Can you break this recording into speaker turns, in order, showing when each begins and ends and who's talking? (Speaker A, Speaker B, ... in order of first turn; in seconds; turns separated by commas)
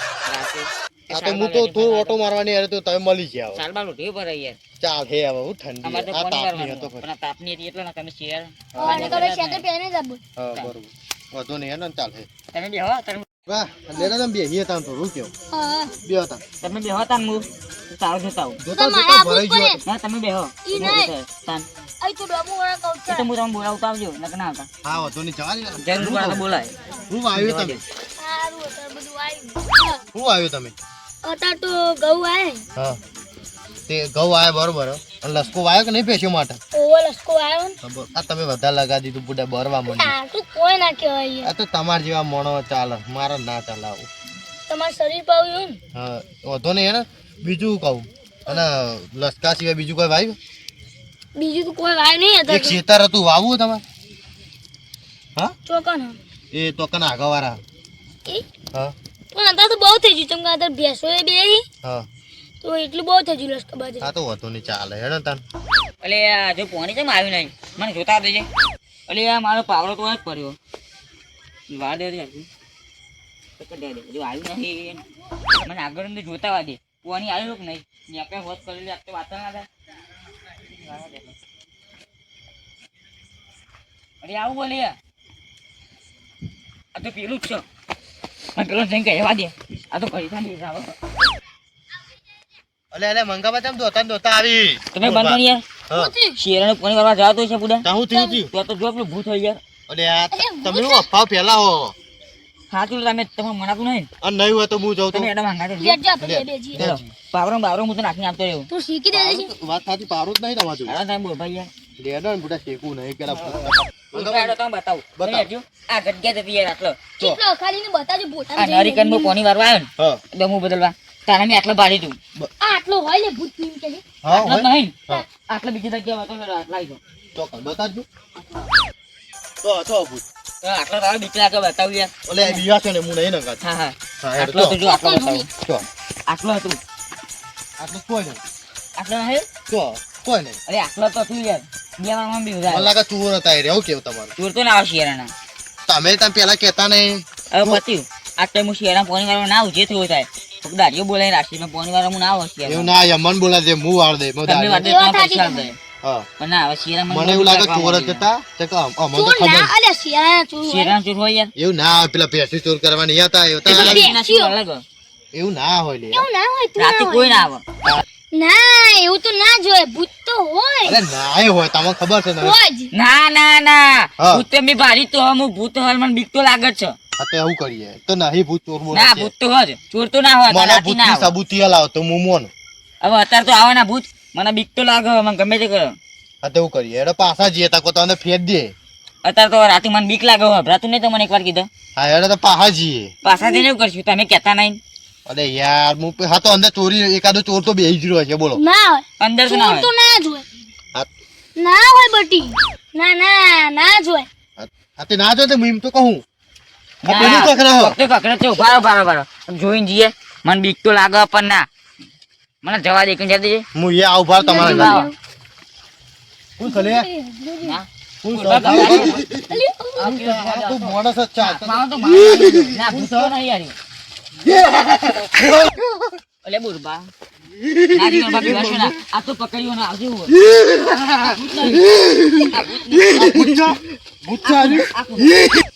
Speaker A: 0.2-2.2, Speaker B: 1.1-3.6, Speaker A: 3.5-4.6, Speaker B: 4.8-7.0, Speaker A: 5.8-9.6, Speaker B: 8.7-9.2, Speaker C: 8.8-10.2, Speaker B: 10.3-12.3, Speaker A: 12.5-13.2, Speaker B: 13.4-15.3, Speaker C: 15.5-15.9, Speaker B: 16.0-16.4, Speaker A: 16.6-18.6, Speaker B: 18.6-19.8, Speaker C: 18.7-19.8, Speaker A: 19.8-21.7, Speaker C: 20.6-21.1, Speaker B: 20.8-21.0, Speaker C: 22.0-23.3, Speaker A: 23.1-24.7, Speaker B: 24.8-26.4, Speaker A: 25.8-26.7, Speaker B: 27.1-27.8, Speaker A: 27.3-27.8, Speaker C: 28.2-30.0, Speaker B: 30.1-30.7, Speaker C: 31.2-32.6, Speaker B: 33.9-36.6, Speaker C: 36.7-37.8, Speaker B: 37.8-40.1, Speaker C: 39.9-41.5, Speaker B: 41.4-44.1, Speaker C: 44.7-45.8, Speaker B: 45.9-50.4, Speaker C: 51.4-52.8, Speaker B: 52.5-53.8, Speaker C: 55.6-56.2, Speaker B: 56.5-57.6, Speaker C: 59.3-61.6, Speaker C: 62.6-64.1, Speaker B: 64.0-65.4, Speaker A: 66.0-68.5, Speaker A: 69.1-70.6, Speaker A: 71.7-72.5, Speaker A: 73.6-75.0, Speaker A: 75.6-79.7, Speaker A: 80.5-81.3, Speaker A: 84.2-85.0, Speaker A: 86.9-87.6, Speaker A: 88.5-90.9, Speaker B: 92.9-96.1, Speaker A: 94.9-95.6, Speaker C: 95.9-96.4, Speaker A: 96.3-97.8, Speaker B: 97.8-98.5, Speaker C: 98.1-98.4, Speaker A: 98.5-99.6, Speaker B: 99.9-101.9, Speaker C: 100.3-101.1, Speaker A: 102.7-104.1, Speaker B: 104.2-105.3, Speaker A: 105.1-106.0, Speaker C: 105.8-106.8, Speaker B: 106.2-107.1, Speaker A: 106.7-108.7, Speaker C: 108.7-109.5, Speaker B: 109.1-110.9, Speaker A: 110.8-111.7, Speaker B: 112.0-114.6, Speaker A: 113.3-117.3, Speaker B: 115.2-115.5, Speaker C: 117.2-119.3, Speaker A: 118.5-122.2, Speaker C: 122.6-124.0, Speaker B: 124.2-125.2, Speaker A: 124.3-127.0, Speaker B: 127.3-128.1, Speaker B: 129.6-130.2, Speaker A: 130.6-132.6, Speaker B: 132.3-133.6, Speaker A: 133.6-135.5, Speaker B: 134.2-134.8, Speaker C: 134.8-135.5, Speaker B: 135.5-135.8, Speaker A: 136.3-136.8, Speaker B: 137.8-138.4, Speaker A: 139.0-139.5, Speaker B: 139.7-140.6, Speaker A: 140.7-142.9, Speaker B: 142.7-144.3, Speaker A: 144.4-145.3, Speaker B: 145.9-147.8, Speaker A: 147.5-152.9, Speaker B: 152.7-154.9, Speaker A: 154.4-155.8, Speaker C: 154.8-155.7, Speaker A: 156.4-158.2, Speaker B: 157.1-159.7, Speaker C: 159.1-160.9, Speaker A: 160.6-161.5, Speaker B: 161.6-164.1, Speaker A: 163.7-164.8, Speaker C: 163.7-164.5, Speaker B: 165.3-166.3, Speaker C: 166.1-167.5, Speaker A: 166.8-167.6, Speaker C: 168.3-171.0, Speaker B: 170.8-172.6, Speaker C: 172.4-172.9, Speaker A: 172.9-176.9, Speaker B: 174.2-174.4, Speaker B: 177.2-179.3, Speaker A: 178.9-181.3, Speaker B: 180.5-182.5, Speaker A: 183.0-186.0, Speaker B: 186.4-188.7, Speaker A: 189.2-191.7, Speaker B: 191.9-193.1, Speaker A: 193.2-194.8, Speaker C: 193.2-193.6, Speaker B: 195.2-198.6, Speaker C: 198.6-200.4, Speaker A: 199.2-199.9, Speaker C: 201.6-204.3, Speaker B: 204.6-206.2, Speaker A: 207.0-211.7, Speaker B: 207.0-208.0, Speaker A: 212.6-213.6, Speaker B: 213.7-215.1, Speaker C: 214.3-215.1, Speaker A: 214.5-215.1, Speaker B: 216.6-217.1, Speaker C: 216.6-217.8, Speaker A: 217.6-219.3, Speaker B: 218.2-223.3, Speaker C: 218.7-220.1, Speaker A: 219.9-223.8, Speaker B: 224.5-225.8, Speaker A: 226.4-227.1, Speaker B: 227.6-228.9, Speaker A: 227.9-230.4, Speaker A: 231.1-233.6, Speaker B: 233.1-234.9, Speaker A: 234.4-235.5